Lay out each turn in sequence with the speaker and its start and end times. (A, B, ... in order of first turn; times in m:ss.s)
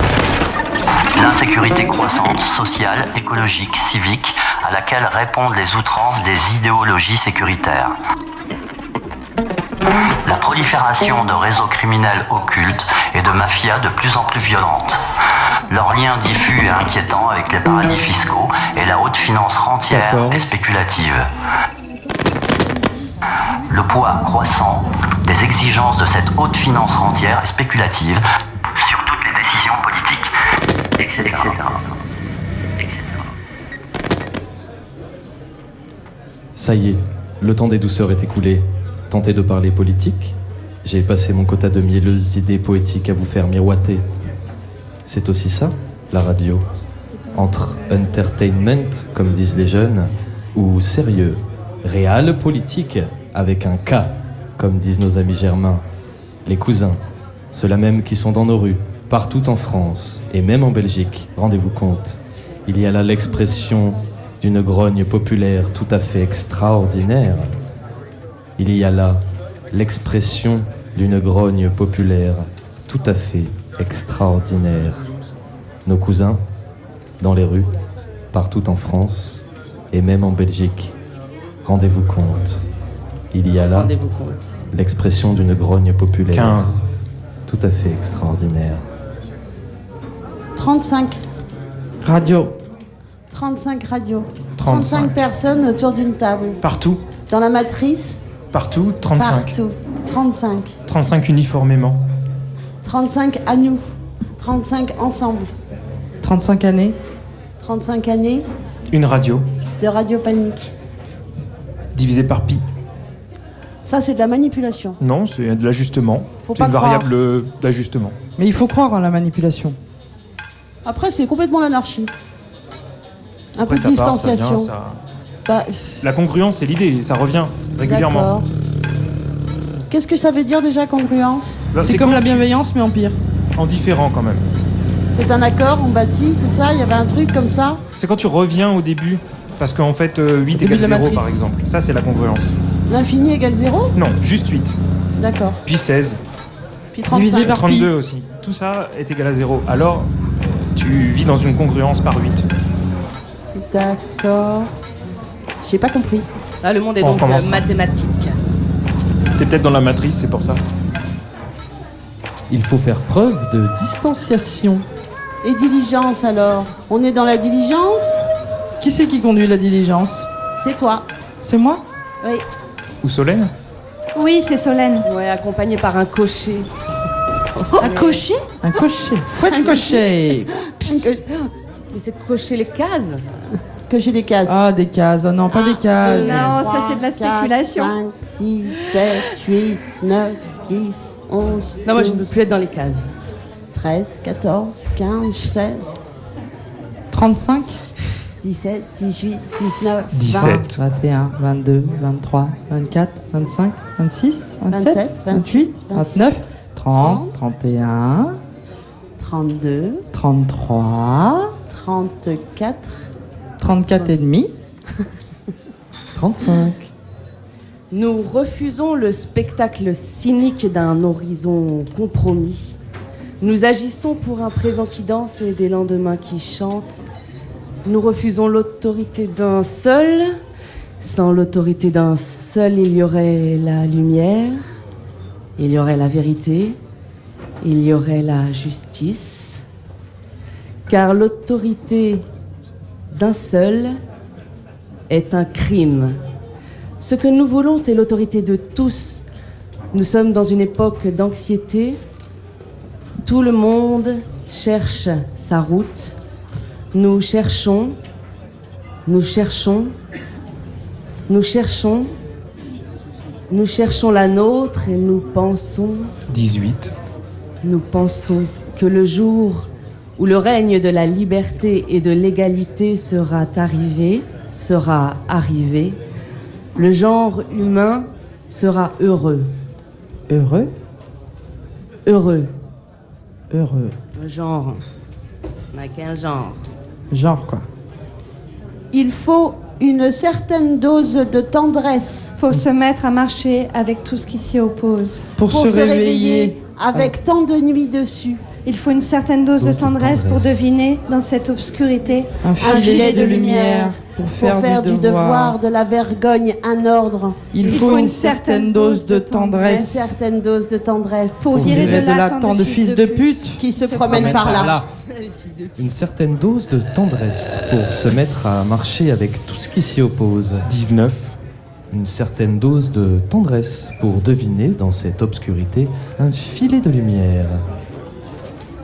0:01.1-0:08.0 A
0:10.2-0:15.0 A
0:15.7-0:21.3 A
0:19.9-0:20.5 B
0:23.7-0:28.2 A
0:28.8-0:30.3 A
0:31.0-0:32.0 A
0:32.8-0:33.3 A
0:36.5-0:44.0 C
0:45.0-0:46.6 C
0:47.3-0:55.8 C
0:56.4-0:57.0 C
0:57.5-1:07.6 C
1:08.6-1:15.0 C
1:15.8-1:16.4 C
1:17.2-1:17.7 C
1:18.3-1:20.9 C
1:21.6-1:22.6 C
1:23.3-1:23.9 C
1:23.6-1:24.5 D
1:24.7-1:26.8 C
1:26.3-1:26.8 B
1:27.4-1:28.8 C
1:30.6-1:31.2 E
1:32.0-1:32.5 F
1:33.3-1:36.6 E
1:34.6-1:35.2 B
1:36.6-1:37.0 B
1:37.3-1:38.2 E
1:38.5-1:39.5 B
1:39.1-1:40.7 E
1:40.9-1:42.0 B
1:42.8-1:43.8 E
1:44.4-1:45.5 E
1:46.2-1:47.0 F
1:47.6-1:48.4 E
1:48.9-1:49.4 B
1:49.8-1:50.7 E
1:51.9-1:52.6 B
1:53.8-1:55.0 E
1:55.0-1:58.2 B
1:56.4-1:57.1 E
1:58.4-1:59.8 F
2:00.8-2:02.1 E
2:03.5-2:04.7 E
2:03.6-2:05.0 B
2:05.5-2:06.0 E
2:06.0-2:08.3 B
2:07.8-2:08.5 E
2:09.9-2:11.7 E
2:11.7-2:12.5 B
2:11.8-2:13.2 F
2:13.6-2:14.4 B
2:15.1-2:17.8 E
2:18.0-2:22.5 B
2:20.5-2:21.4 F
2:22.9-2:23.9 E
2:23.9-2:24.8 B
2:25.2-2:25.6 E
2:25.6-2:26.2 B
2:26.9-2:27.6 E
2:27.1-2:27.9 F
2:27.4-2:32.5 B
2:33.5-2:34.7 E
2:35.6-2:36.3 E
2:36.6-2:38.4 D
2:37.0-2:37.6 B
2:39.4-2:40.6 B
2:42.5-2:44.8 C
2:45.4-2:48.2 E
2:48.8-2:50.3 F
2:50.6-2:51.0 E
2:51.4-2:51.8 F
2:53.0-2:53.5 B
2:54.1-2:55.1 G
2:55.0-2:56.7 D
2:57.8-2:58.2 E
2:57.8-2:58.2 D
2:57.8-2:58.3 G
2:58.6-3:00.5 F
2:59.5-3:00.1 E
3:00.6-3:01.5 E
3:01.9-3:03.2 D
3:03.9-3:04.6 E
3:04.4-3:06.6 F
3:05.5-3:12.2 E
3:06.0-3:07.9 G
3:11.8-3:13.1 D
3:13.7-3:15.9 E
3:17.1-3:17.8 F
3:18.4-3:20.6 E
3:20.1-3:20.8 B
3:20.4-3:28.4 F
3:24.7-3:26.1 E
3:26.9-3:27.4 E
3:29.2-3:30.0 E
3:30.1-3:31.5 F
3:31.7-3:33.0 E
3:33.6-3:34.5 F
3:36.1-3:36.9 C
3:37.9-3:42.8 D
3:43.4-3:47.0 D
3:47.8-3:50.4 D
3:51.0-3:54.6 D
3:55.6-3:56.8 D
3:57.6-3:59.6 D
4:00.9-4:02.2 D
4:03.1-4:04.0 D
4:05.1-4:06.2 D
4:07.0-4:09.2 D
4:09.9-4:12.0 D
4:13.2-4:16.1 D
4:16.9-4:18.0 D
4:19.0-4:19.9 D
4:21.3-4:22.1 D
4:23.5-4:26.1 D
4:26.3-4:26.9 B
4:27.6-4:36.0 D
4:36.7-4:39.5 D
4:40.3-4:40.7 F
4:42.0-4:42.5 D
4:43.5-4:43.9 F
4:44.2-4:44.8 D
4:45.7-4:46.6 D
4:47.1-4:47.6 F
4:48.9-4:52.3 E
4:52.4-4:55.3 G
4:55.4-4:57.1 F
4:55.5-4:58.4 E
4:58.6-5:03.9 G
4:59.6-5:00.7 C
5:02.4-5:05.6 F
5:02.6-5:08.0 E
5:07.5-5:10.2 F
5:07.6-5:09.9 G
5:09.6-5:11.8 E
5:11.4-5:14.7 G
5:11.5-5:13.6 F
5:13.6-5:14.8 E
5:14.1-5:14.8 C
5:15.1-5:15.7 D
5:15.8-5:20.7 C
5:20.6-5:21.3 B
5:21.9-5:27.6 C